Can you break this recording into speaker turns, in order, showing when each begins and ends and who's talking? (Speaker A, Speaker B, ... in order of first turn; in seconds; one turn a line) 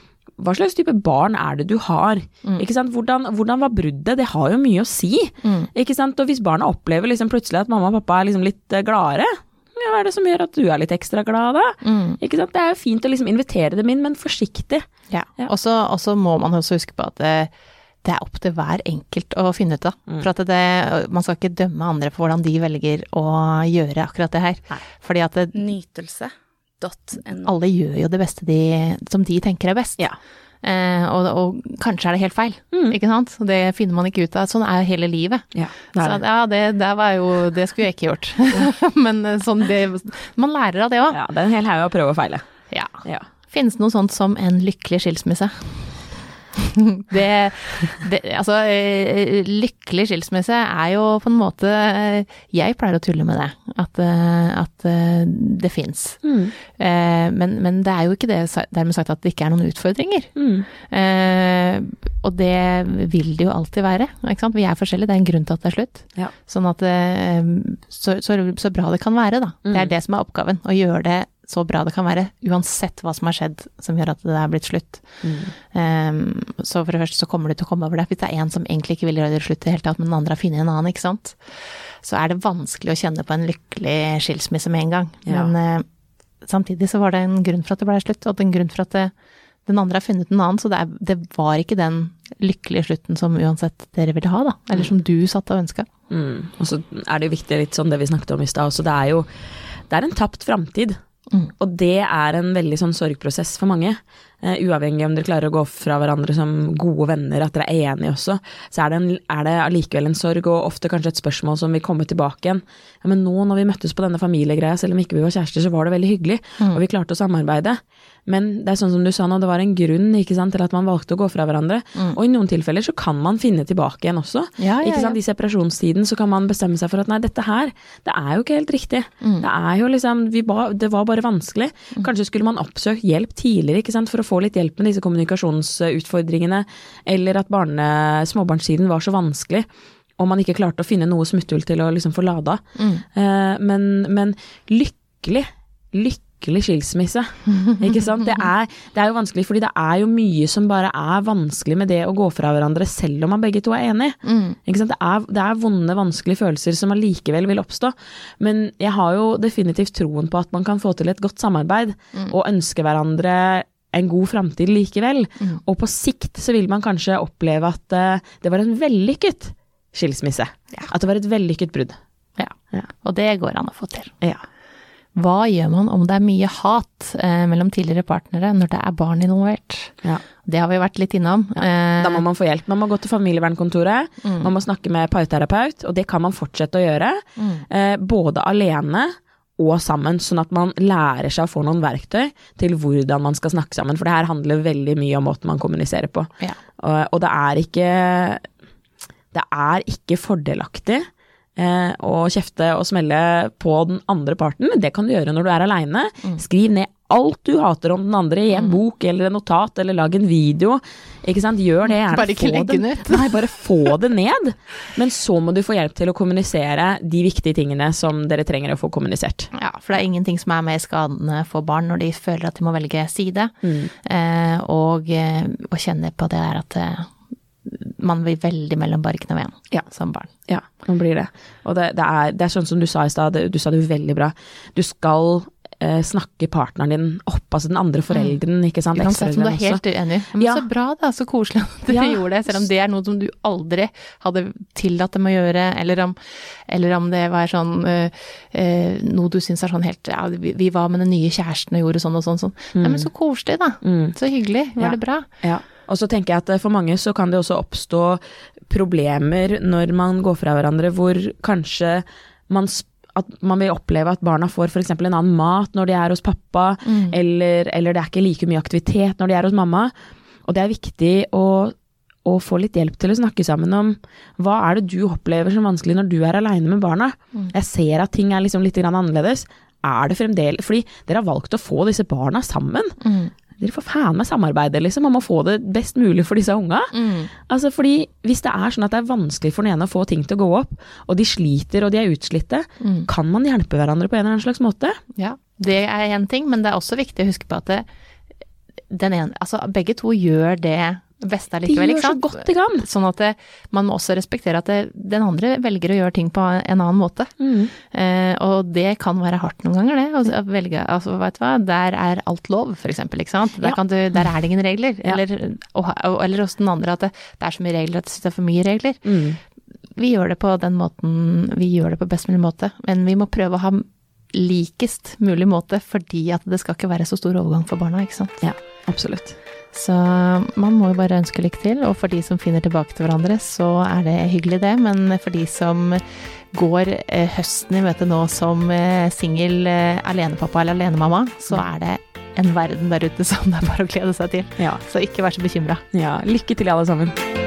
Speaker A: 0.4-14.9
Speaker B: 5.4-5.7
Speaker B: 11.8-12.2
Speaker B: 15.1-17.5
Speaker B: 18.0-25.5
Speaker C: 25.5-27.5
Speaker B: 27.4-30.1
Speaker B: 30.6-41.2
Speaker A: 35.5-36.2
Speaker A: 41.1-42.5
Speaker B: 42.7-85.9
Speaker A: 56.2-56.5
Speaker A: 60.4-60.7
Speaker A: 69.7-69.9
Speaker A: 75.2-75.5
Speaker A: 85.2-85.5
Speaker B: 86.4-89.1
Speaker B: 89.7-95.9
Speaker A: 96.1-99.3
Speaker A: 99.9-101.0
Speaker A: 101.6-139.7
Speaker B: 124.6-125.2
Speaker B: 129.2-129.4
Speaker A: 140.2-172.0
Speaker B: 142.8-143.0
Speaker B: 154.2-154.6
Speaker B: 172.4-174.1
Speaker B: 175.1-182.2
Speaker A: 182.0-198.5
Speaker B: 184.2-184.5
Speaker B: 187.4-187.6
Speaker A: 199.3-219.5
Speaker B: 211.8-213.4
Speaker B: 219.5-227.1
Speaker A: 223.6-223.9
Speaker B: 227.6-230.3
Speaker A: 230.5-239.8
Speaker B: 238.1-238.4
Speaker B: 238.9-255.3
Speaker A: 240.4-240.6
Speaker A: 241.9-242.2
Speaker A: 252.7-253.1
Speaker A: 253.8-254.2
Speaker A: 254.8-269.9
Speaker B: 266.8-267.1
Speaker A: 270.4-283.0
Speaker B: 283.0-283.3
Speaker A: 283.6-295.0
Speaker B: 286.9-287.3
Speaker B: 292.8-293.1
Speaker B: 295.1-297.9
Speaker B: 298.9-319.0
Speaker A: 301.6-302.8
Speaker A: 307.4-307.7
Speaker A: 319.0-319.4
Speaker B: 319.9-328.3
Speaker A: 328.4-329.4
Speaker B: 329.7-345.8
Speaker A: 345.9-347.2